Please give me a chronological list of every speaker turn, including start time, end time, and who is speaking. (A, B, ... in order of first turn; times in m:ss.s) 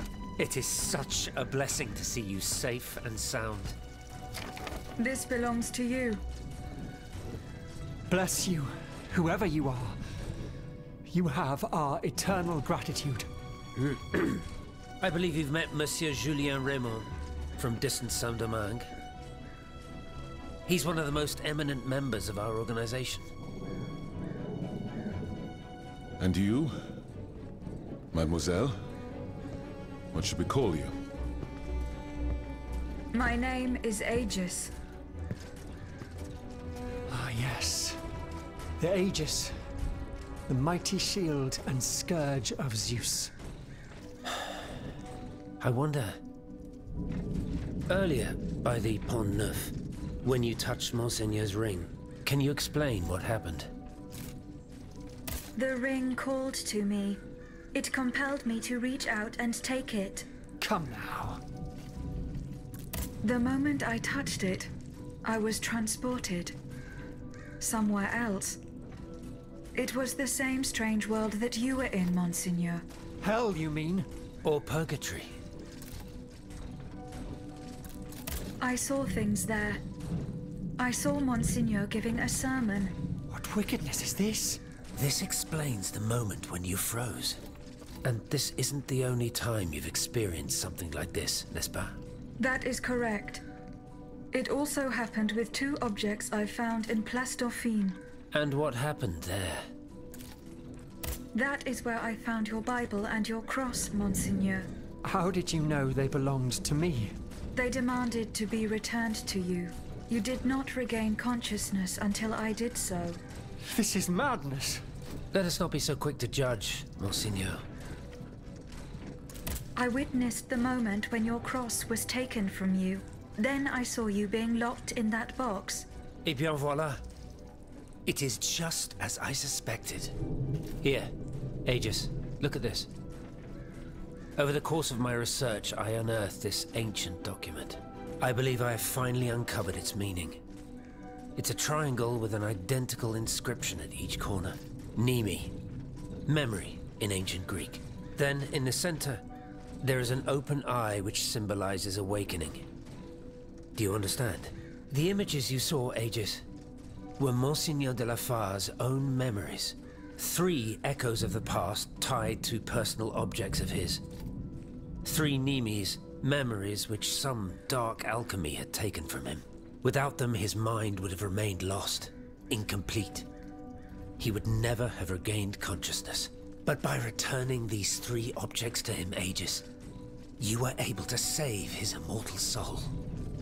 0:00.4-0:03.8 A
0:05.0-0:06.2 B
0:08.1-0:10.0 C
0:11.0-0:13.3 C
0:13.8-0:14.4 A
0:15.0-0:18.9 A
0:20.7-0:23.3 A
0:26.2-0:26.7 D
0:28.1-0:28.8 D
0:30.1-0:31.0 D
0:33.1-0:34.7 B
0:37.1-0:38.0 C
0:38.8-0:39.5 C
0:40.5-0:43.3 C
0:45.6-0:46.2 A
0:47.9-0:53.7 A
0:55.6-0:57.2 B
0:57.7-1:00.3 B
1:00.6-1:01.4 C
1:03.2-1:04.7 B
1:05.2-1:06.6 B
1:07.6-1:08.6 B
1:09.8-1:12.8 B
1:13.2-1:14.1 C
1:14.4-1:15.3 A
1:18.6-1:19.8 B
1:20.8-1:22.9 B
1:23.3-1:24.6 C
1:25.0-1:27.4 A
1:28.0-1:32.0 A
1:32.4-1:33.4 B
1:34.3-1:38.0 B
1:38.3-1:39.7 A
1:41.3-1:44.7 B
1:45.0-1:47.2 C
1:47.6-1:53.2 B
1:53.6-1:54.8 C
1:55.3-1:57.6 A
1:59.8-2:05.9 B
2:06.2-2:07.0 A
2:08.1-2:10.2 A
2:10.8-2:11.1 A
2:11.7-2:12.9 A
2:14.4-2:20.4 A
2:21.4-2:25.5 A
2:26.3-2:29.2 A
2:29.8-2:32.6 A
2:33.8-2:36.4 A
2:37.2-2:44.0 A
2:45.0-2:53.3 A
2:54.2-2:59.6 A
3:00.4-3:02.9 A